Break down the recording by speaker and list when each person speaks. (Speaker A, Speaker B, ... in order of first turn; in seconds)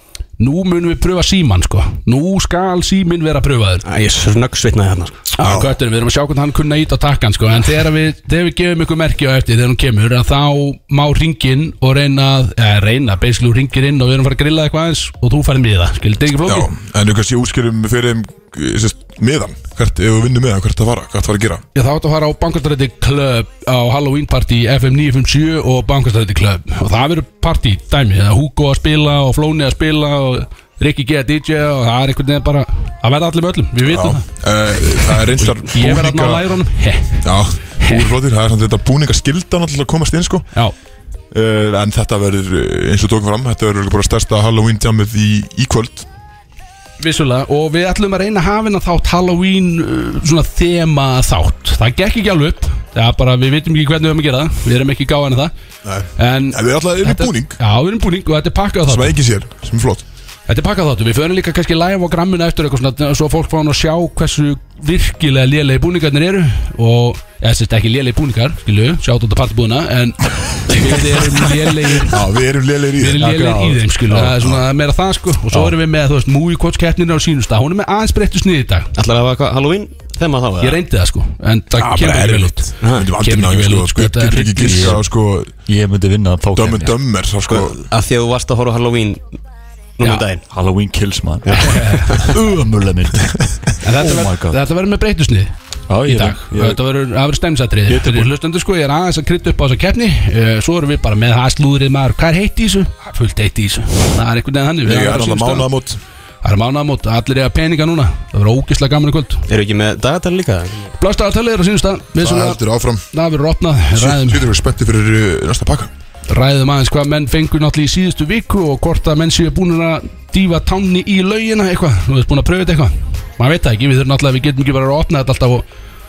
Speaker A: 0.4-3.8, 5.3-16.7, 21.8-34.3, 35.1-38.1, 47.0-55.5, 56.2-59.2, 60.5-72.2, 73.0-78.9, 80.6-85.0, 91.5-92.4, 93.8-105.7, 106.4-109.4, 111.0-114.5, 116.3-125.7
Speaker B: 3.9-5.2, 79.0-80.8, 82.8-83.1, 87.5-89.4, 90.0-90.5, 91.5-92.0, 109.5-110.9
Speaker C: 5.4-5.8, 16.4-21.6, 33.9-36.5, 37.2-40.5, 41.3-46.1, 55.8-57.6, 58.9-60.0, 72.0-73.3, 74.3-74.6, 81.8-85.6, 86.5-87.9, 104.8-106.0, 112.2-113.0, 113.9-115.9
Speaker D: 73.2-74.4, 84.7-85.0, 85.7-86.9, 90.5-94.6, 95.9-96.8, 97.9-98.3